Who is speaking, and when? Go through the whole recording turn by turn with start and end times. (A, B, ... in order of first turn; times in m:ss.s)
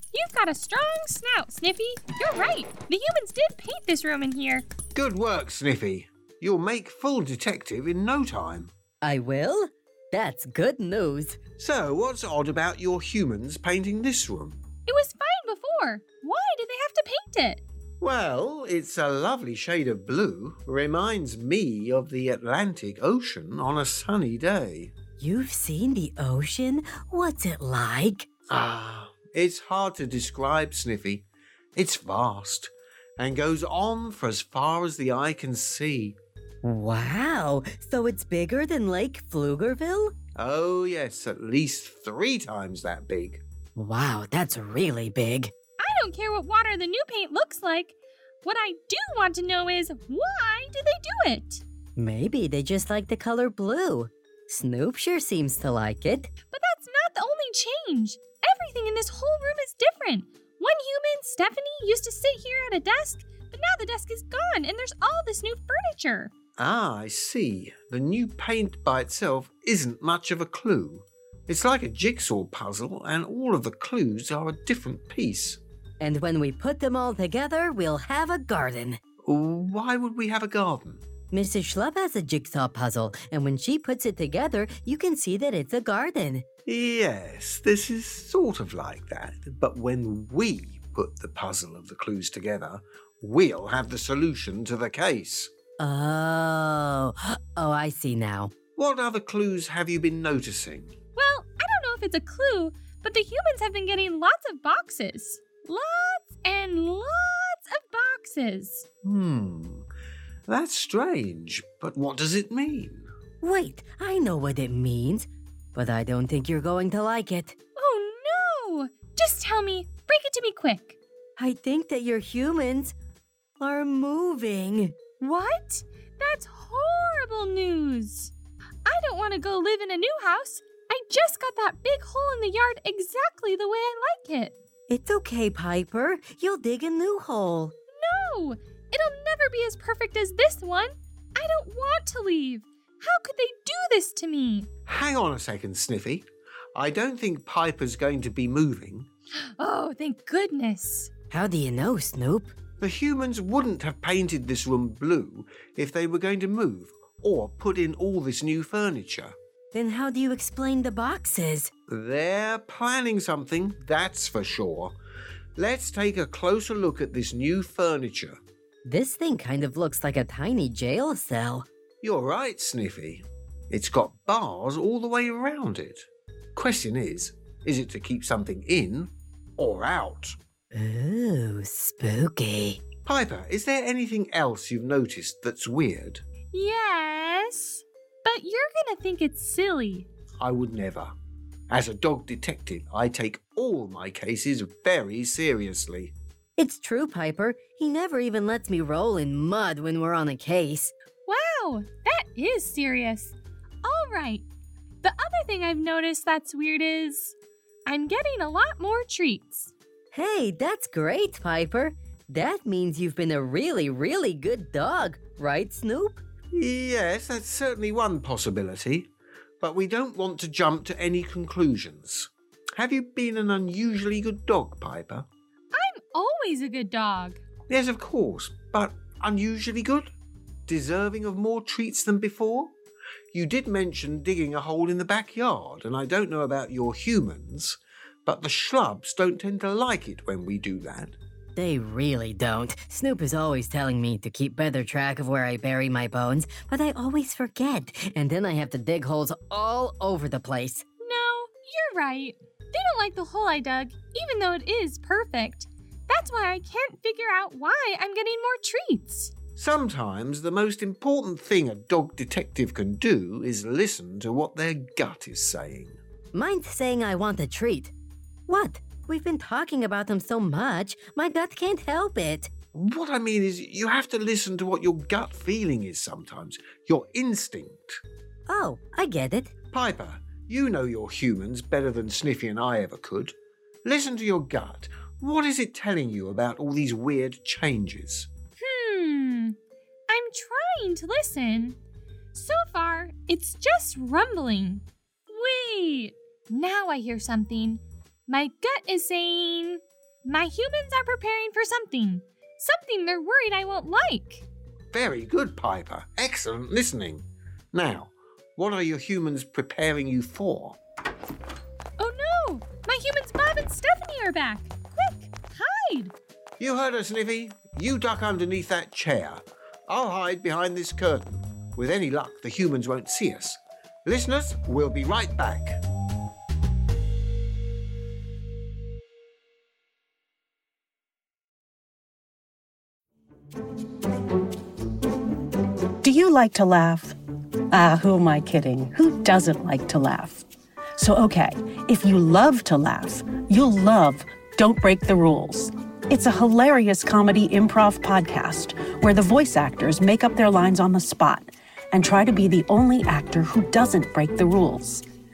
0:00.1-0:04.6 A
0:05.0-0:08.7 B
0:09.0-0:11.4 C
0:11.6-0:14.6 B
0:14.9-0:17.6 A
0:18.0-0:24.9 B
0:25.2-0:28.3 C
0:28.5-0:36.2 B
0:36.6-0:40.1 C
0:40.4-0:43.4 B
0:43.8-0:45.5 C
0:45.8-0:51.6 A
0:52.0-0:56.3 C
0:56.5-1:06.3 A
1:06.6-1:15.6 B
1:16.0-1:19.0 C
1:19.2-1:21.0 B
1:21.3-1:26.4 C
1:26.7-1:35.5 B
1:35.8-1:38.5 C
1:38.8-1:41.0 B
1:41.2-1:48.9 A
1:49.0-1:49.9 B
1:50.5-1:53.1 B
1:53.4-1:57.6 C
1:57.8-2:01.0 A
2:01.4-2:02.9 C
2:03.6-2:05.0 C
2:05.2-2:08.3 A
2:08.9-2:14.6 A
2:14.9-2:17.7 C
2:17.9-2:24.7 A
2:24.9-2:29.1 B
2:29.4-2:31.1 A
2:31.3-2:32.5 C
2:32.8-2:39.4 B
2:39.7-2:41.7 C
2:41.9-2:45.0 B
2:45.6-2:48.4 B
2:48.9-2:51.7 C
2:52.0-3:00.4 B
3:00.7-3:02.8 C
3:03.0-3:06.2 B
3:06.5-3:10.1 A
3:10.4-3:11.1 B
3:11.7-3:16.1 B
3:16.6-3:20.9 C
3:21.2-3:24.4 A
3:25.0-3:27.3 A
3:27.9-3:29.7 A
3:30.1-3:36.2 C
3:36.5-3:39.1 B
3:39.6-3:45.3 B
3:45.7-3:47.4 A
3:47.7-3:50.1 B
3:50.7-3:52.7 B
3:53.3-4:01.2 B
4:01.6-4:10.8 C
4:11.0-4:19.3 A
4:19.6-4:26.0 B
4:26.3-4:27.9 C
4:28.5-4:32.5 C
4:32.7-4:38.0 B
4:38.5-4:39.5 C
4:39.7-4:48.3 B
4:48.6-4:49.6 A
4:50.1-4:51.8 A
4:52.3-5:04.4 A
5:04.9-5:10.8 B
5:12.0-5:16.1 A
5:16.6-5:25.8 B
5:36.0-5:37.2 D
5:37.7-5:40.5 D
5:41.0-5:55.0 D